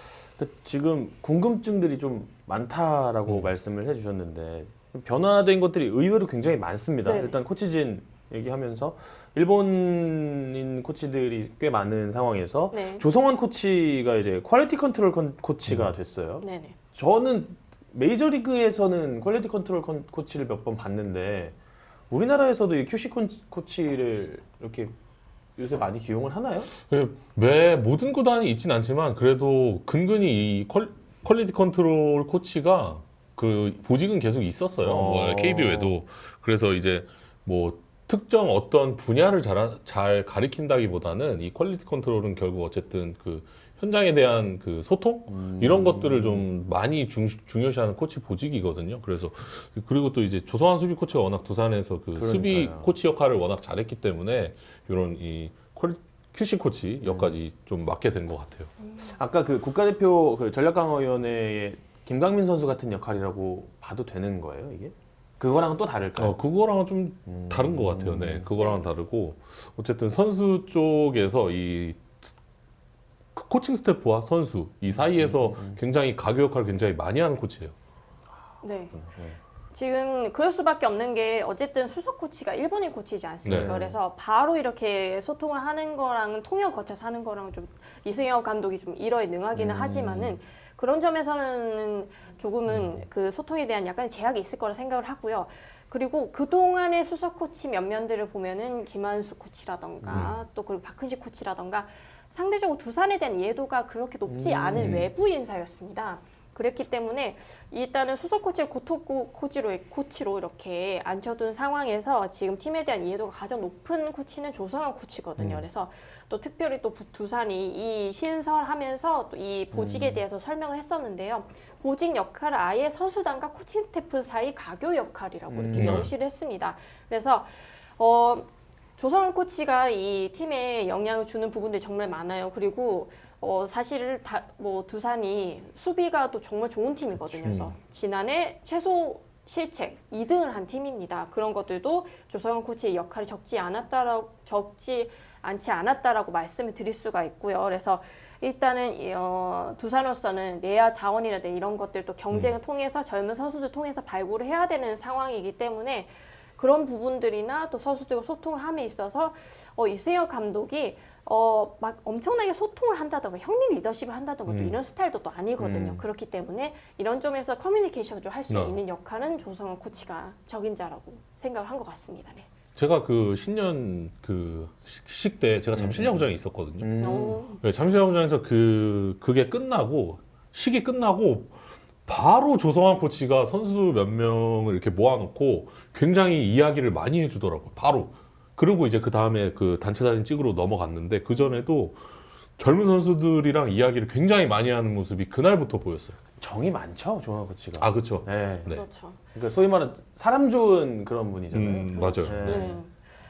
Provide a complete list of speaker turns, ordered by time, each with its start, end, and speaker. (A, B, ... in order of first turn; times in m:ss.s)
0:00.4-0:21.6 A
0:07.0-0:07.4 B
0:12.7-0:13.0 B
0:16.4-0:16.8 B
0:22.1-0:24.9 A
0:25.6-0:26.7 A
0:26.8-0:58.7 C
0:34.8-0:35.9 A
0:45.3-0:46.5 A
0:52.2-0:52.9 A
0:57.0-0:57.3 A
0:59.0-1:06.4 A
1:06.2-1:12.3 C
1:07.3-1:08.5 A
1:13.3-1:17.7 C
1:14.9-1:15.8 A
1:18.6-1:18.9 B
1:18.9-1:19.4 A
1:19.7-2:52.5 B
1:23.4-1:23.7 C
1:23.4-1:24.0 A
1:29.5-1:30.4 A
1:40.1-1:40.3 C
1:44.2-1:45.1 A
1:44.7-1:45.1 C
1:55.4-1:55.6 A
1:59.7-2:00.2 A
2:05.5-2:06.1 A
2:05.7-2:06.1 C
2:17.3-2:17.7 A
2:44.5-2:44.7 A
2:45.6-2:46.0 A
2:48.5-2:48.8 C
2:52.7-2:56.9 C
2:55.7-2:56.2 A
2:56.8-2:57.4 A
2:57.0-2:57.6 B
2:57.6-3:12.0 C
3:12.6-3:16.2 C
3:16.4-3:18.8 A
3:17.8-3:18.8 C
3:18.7-3:19.2 B
3:19.3-3:22.8 A
3:21.5-3:22.7 C
3:21.9-3:22.9 B